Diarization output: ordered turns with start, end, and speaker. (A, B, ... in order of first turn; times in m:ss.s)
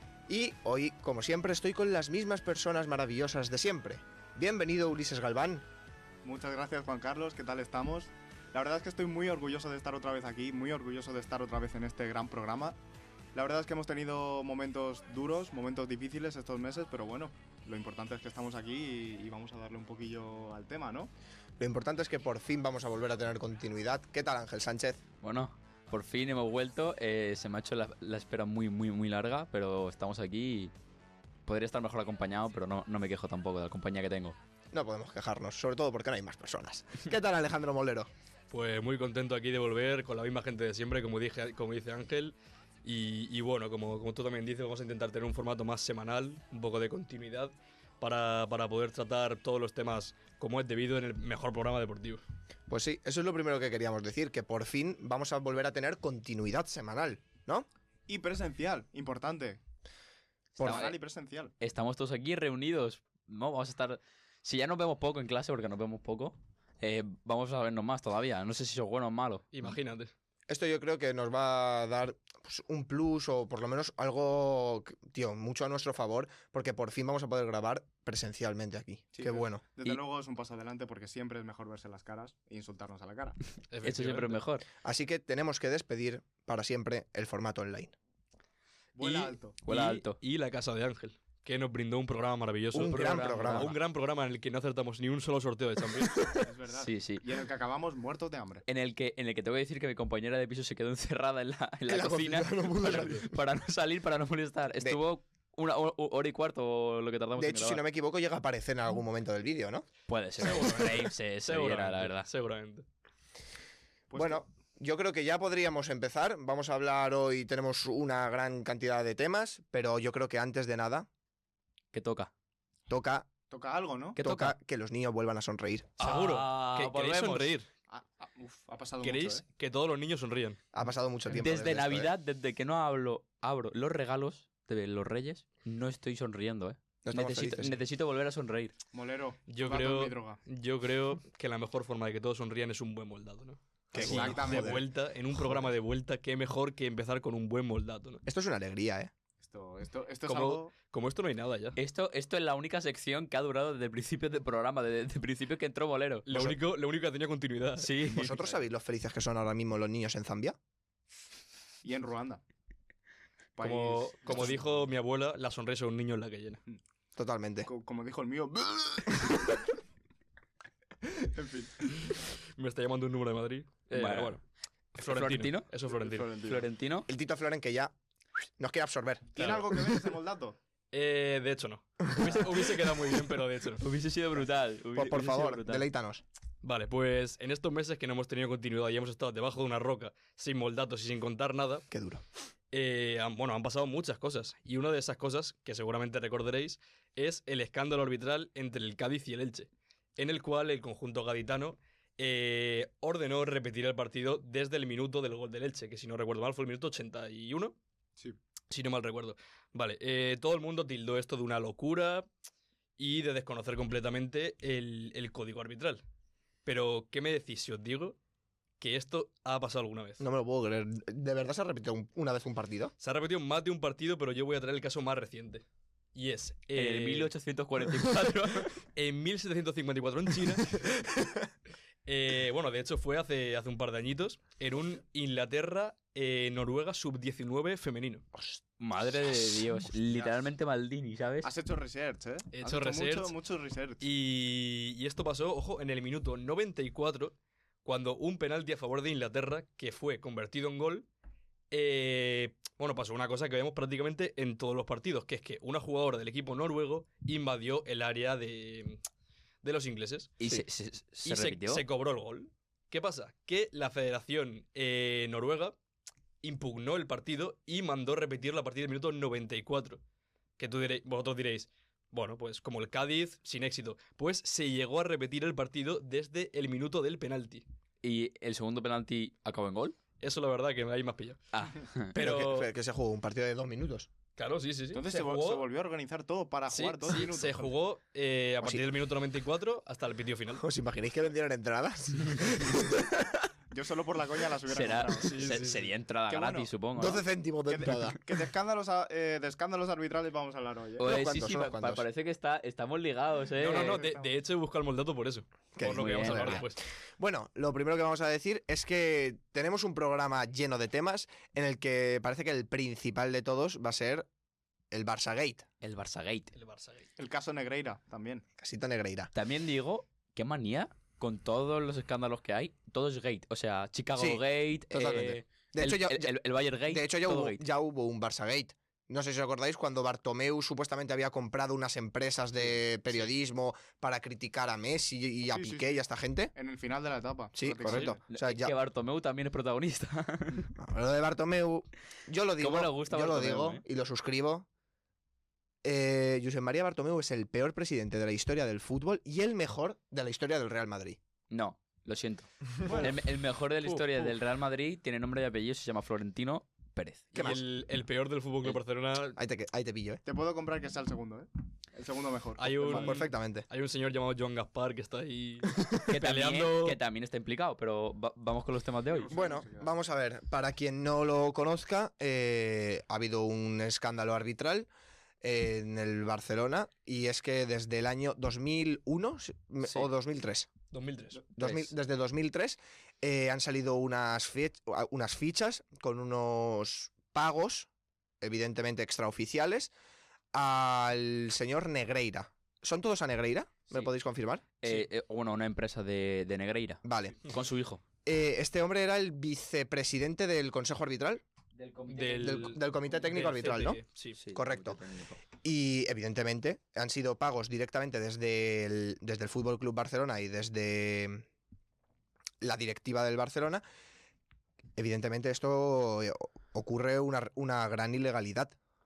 0:00.3-0:05.7 A
0:06.2-0:12.8 B
0:13.3-0:21.1 B
0:21.6-0:25.0 A
0:25.2-0:30.7 C
0:31.4-0:34.4 C
0:34.7-0:38.1 A
0:38.5-0:52.2 D
0:52.7-0:57.7 A
0:58.1-0:59.6 B
1:00.6-1:01.0 C
1:00.6-1:00.9 A
1:00.6-1:01.5 B
1:01.6-1:09.5 C
1:09.5-1:10.1 D
1:10.5-1:19.6 A
1:19.1-1:23.4 B
1:23.7-1:24.4 D
1:23.8-1:24.7 C
1:24.8-1:27.9 A
1:29.0-1:29.6 B
1:29.0-1:36.5 D
1:29.7-1:30.2 C
1:32.7-1:33.7 A
1:32.7-1:33.8 C
1:36.4-1:38.6 B
1:36.8-1:37.2 C
1:38.7-1:47.8 C
1:41.9-1:43.3 A
1:47.3-1:49.9 A
1:50.1-1:52.3 C
1:50.4-1:52.8 D
1:54.1-1:54.4 B
1:54.2-2:01.1 A
2:01.9-2:02.3 C
2:02.9-2:03.3 A
2:03.5-2:04.2 B
2:04.2-2:04.6 C
2:04.2-2:06.0 A
2:06.0-2:07.7 D
2:06.0-2:07.5 C
2:06.0-2:06.4 B
2:07.9-2:09.4 B
2:09.0-2:10.6 D
2:10.7-2:12.1 A
2:11.3-2:18.8 C
2:17.0-2:17.8 A
2:18.9-2:20.4 B
2:19.5-2:28.2 D
2:23.9-2:24.8 A
2:23.9-2:24.8 B
2:28.2-2:29.1 A
2:29.4-2:30.7 B
2:30.2-2:31.8 D
2:31.8-2:36.3 C
2:36.3-2:38.3 D
2:37.8-2:38.3 C
2:38.1-2:40.6 A
2:41.8-2:42.4 B
2:43.6-2:44.7 B
2:43.6-2:46.6 D
2:47.2-2:47.7 A
2:47.6-2:49.7 B
2:51.0-2:52.2 B
2:52.0-2:54.4 D
2:53.9-2:54.4 C
2:55.0-2:55.7 C
2:55.0-2:56.6 D
2:56.0-2:56.6 B
2:56.4-2:57.1 C
2:57.1-2:57.9 A
2:58.6-2:59.4 A
2:59.3-3:00.6 B
2:59.4-3:00.0 D
3:00.9-3:03.8 D
3:03.8-3:05.8 C
3:05.0-3:06.2 A
3:06.6-3:11.9 D
3:11.9-3:12.2 A
3:12.7-3:27.8 D
3:28.7-3:32.3 D
3:33.0-3:36.0 D
3:36.6-3:38.2 D
3:38.8-3:40.2 D
3:40.2-3:42.9 A
3:43.0-3:47.3 D
3:46.8-3:48.8 C
3:48.0-3:51.2 D
3:52.1-3:58.3 D
3:58.8-4:01.5 C
4:01.4-4:04.0 B
4:02.5-4:03.3 D
4:04.0-4:11.1 D
4:11.7-4:19.0 D
4:19.6-4:20.3 D
4:20.4-4:21.8 C
4:21.2-4:25.8 D
4:26.4-4:30.0 D
4:30.6-4:37.6 D
4:38.0-4:40.0 C
4:40.2-4:41.4 D
4:41.5-4:42.1 C
4:42.1-4:42.7 D
4:42.1-4:44.1 A
4:44.4-4:45.7 D
4:44.9-4:47.7 B
4:46.7-4:50.6 D
4:50.6-4:53.5 A
4:53.7-4:55.4 B
4:54.7-4:57.2 C
4:55.2-4:55.9 D
4:56.3-4:56.7 B
4:57.0-4:58.2 A
4:57.7-5:01.1 B
5:01.0-5:04.0 C
5:01.0-5:02.0 A
5:03.6-5:06.8 D
5:03.6-5:04.3 B
5:05.8-5:14.3 A
5:05.8-5:06.6 C
5:14.9-5:15.7 A
5:15.8-5:16.5 C
5:16.5-5:17.1 D
5:17.2-5:18.4 B
5:18.6-5:19.3 A
5:19.3-5:27.6 C
5:24.2-5:26.3 A
5:26.9-5:36.5 A
5:35.5-5:35.9 B
5:36.5-5:38.2 B
5:37.6-5:38.7 A
5:37.8-5:38.1 D
5:38.3-5:40.7 C
5:40.8-5:44.7 A
5:42.6-5:43.8 C
5:45.8-5:51.2 A
5:51.5-5:57.4 C
5:52.8-5:53.2 B
5:53.8-5:54.3 D
5:57.3-5:57.6 A
5:57.3-5:59.4 D
5:59.4-6:00.2 A
6:00.2-6:03.2 B
6:02.6-6:07.0 D
6:02.9-6:03.6 A
6:06.1-6:09.3 C
6:09.1-6:09.9 B
6:09.3-6:14.9 A
6:15.4-6:20.7 A
6:20.9-6:21.4 D
6:21.6-6:27.9 A
6:21.6-6:21.9 C
6:28.4-6:29.9 A
6:30.5-6:34.6 A
6:34.8-6:38.0 C
6:37.0-6:37.4 A
6:38.2-6:41.4 A
6:41.8-6:42.8 C
6:42.1-6:44.4 D
6:42.4-6:44.0 A
6:44.4-6:45.4 C
6:44.5-6:45.0 A
6:45.6-6:51.4 A
6:52.6-6:53.8 A
6:55.0-6:58.7 A